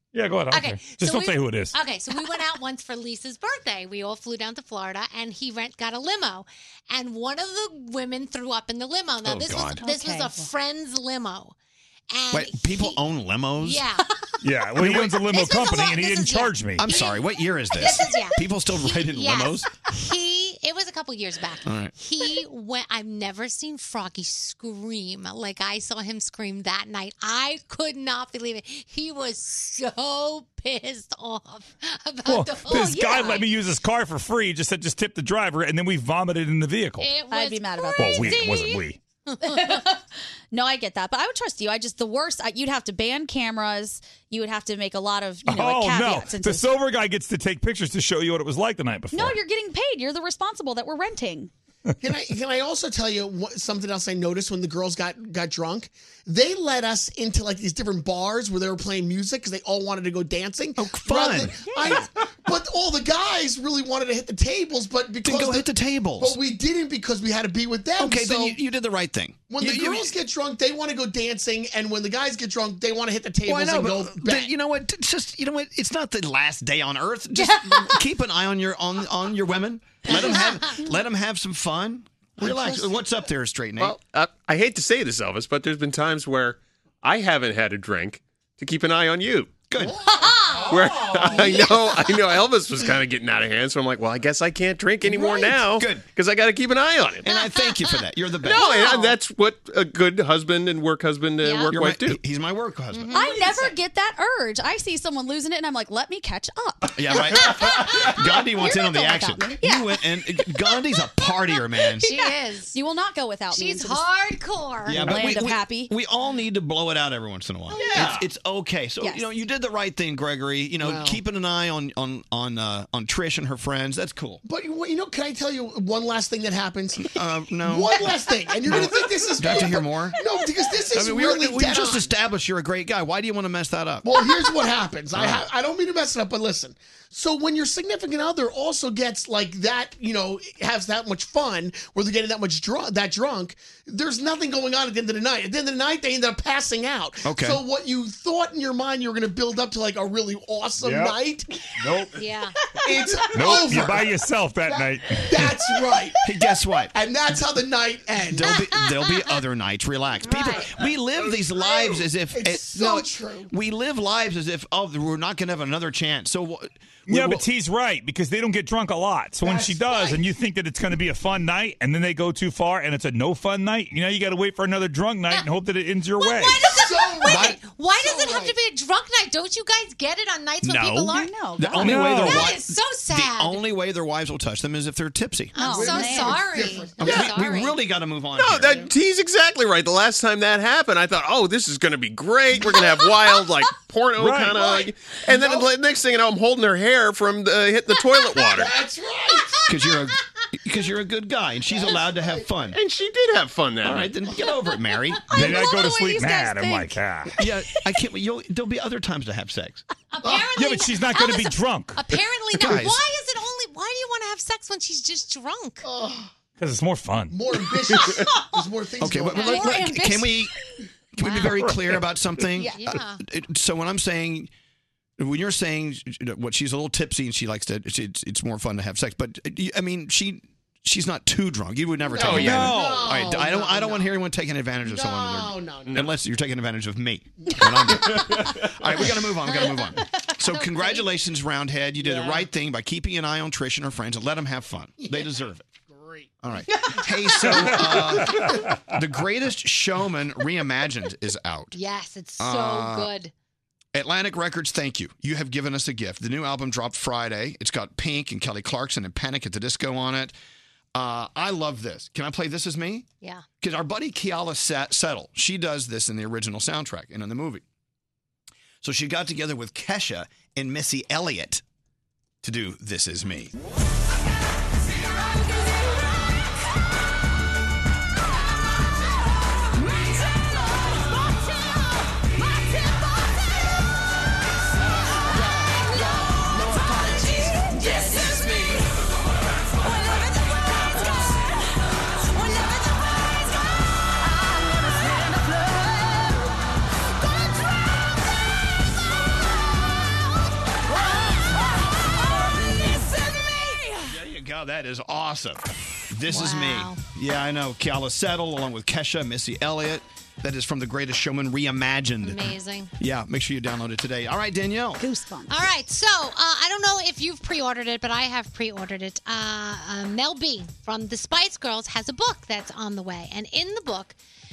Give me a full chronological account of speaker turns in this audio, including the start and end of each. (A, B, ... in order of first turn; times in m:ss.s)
0:00.1-0:01.8 A
0:00.5-0:11.5 B
0:09.2-0:09.8 C
0:09.8-0:10.5 D
0:12.1-0:13.0 B
0:12.3-0:13.8 C
0:13.6-0:14.1 B
0:14.4-0:16.9 A
0:14.8-0:17.2 B
0:16.8-0:19.7 C
0:17.7-0:33.4 B
0:21.6-0:21.9 C
0:32.2-0:37.1 A
0:32.7-0:33.4 D
0:37.0-0:39.8 B
0:37.3-0:38.7 D
0:38.0-0:39.0 A
0:39.4-0:40.0 D
0:40.5-0:46.8 D
0:45.4-0:49.4 A
0:49.1-0:51.5 D
0:52.0-1:08.6 E
1:00.8-1:01.9 C
1:01.7-1:02.0 D
1:05.2-1:06.4 C
1:08.0-1:10.1 C
1:09.5-1:14.5 E
1:13.4-1:24.0 C
1:17.4-1:17.9 B
1:20.1-1:20.8 B
1:22.4-1:22.9 E
1:23.8-1:29.6 F
1:29.7-1:30.0 C
1:30.3-1:30.8 B
1:30.7-1:31.5 E
1:30.7-1:37.3 F
1:35.0-1:36.0 C
1:37.2-1:38.9 C
1:38.4-1:42.2 F
1:38.5-1:38.9 B
1:41.4-1:41.7 B
1:41.7-1:43.4 C
1:42.9-1:43.7 B
1:43.1-1:49.9 D
1:46.9-1:52.1 C
1:52.0-1:52.8 B
1:52.0-1:54.0 D
1:53.5-1:55.3 B
1:54.8-2:04.4 C
1:54.9-1:55.9 D
1:59.0-1:59.2 D
2:00.8-2:01.2 E
2:04.4-2:07.1 E
2:07.0-2:08.1 C
2:07.6-2:12.1 E
2:08.6-2:10.2 C
2:10.9-2:14.0 C
2:14.0-2:31.5 E
2:15.1-2:15.4 C
2:27.2-2:27.6 C
2:30.8-2:31.2 A
2:32.2-2:32.5 B
2:32.8-2:34.1 E
2:33.3-2:35.5 A
2:34.6-2:36.2 E
2:36.2-2:36.9 C
2:36.9-2:38.5 E
2:38.3-2:47.4 C
2:38.4-2:39.4 B
2:40.2-2:40.7 B
2:41.5-2:43.5 E
2:47.1-2:56.6 A
2:49.4-2:50.2 E
2:56.2-3:03.6 B
2:56.6-2:58.6 E
2:57.2-2:57.6 C
3:00.6-3:05.5 C
3:01.1-3:02.5 D
3:05.5-3:07.8 B
3:05.6-3:06.4 D
3:05.6-3:07.5 E
3:07.0-3:08.9 C
3:08.3-3:18.7 F
3:14.2-3:14.7 A
3:15.3-3:15.7 E
3:18.4-3:19.6 E
3:19.7-3:22.8 C
3:21.6-3:22.5 E
3:22.7-3:24.1 F
3:23.8-3:25.3 C
3:25.3-3:27.4 A
3:25.3-3:26.9 D
3:27.4-3:29.8 C
3:30.1-3:35.8 B
3:30.5-3:32.0 A
3:32.5-3:33.0 C
3:35.8-3:36.3 E
3:36.6-3:37.4 A
3:37.3-3:39.8 E
3:39.0-3:40.5 C
3:39.4-3:39.9 B
3:39.4-3:40.3 D
3:41.1-3:44.5 C
3:41.2-3:41.5 D
3:42.6-3:43.2 B
3:45.2-4:05.7 C
3:52.1-3:54.2 E
3:52.2-3:53.2 A
3:54.8-3:56.0 E
4:00.4-4:01.0 B
4:02.0-4:02.3 E
4:05.0-4:05.3 E
4:05.9-4:06.2 E
4:06.4-4:11.8 C
4:11.7-4:13.3 B
4:12.4-4:13.1 C
4:13.9-4:20.3 C
4:20.9-4:23.0 C
4:23.6-4:27.6 C
4:28.8-4:31.6 C
4:32.4-4:33.5 C
5:04.0-5:15.0 C
5:06.3-5:07.0 B
5:12.2-5:12.9 B
5:15.0-5:15.6 D
5:15.5-5:24.2 B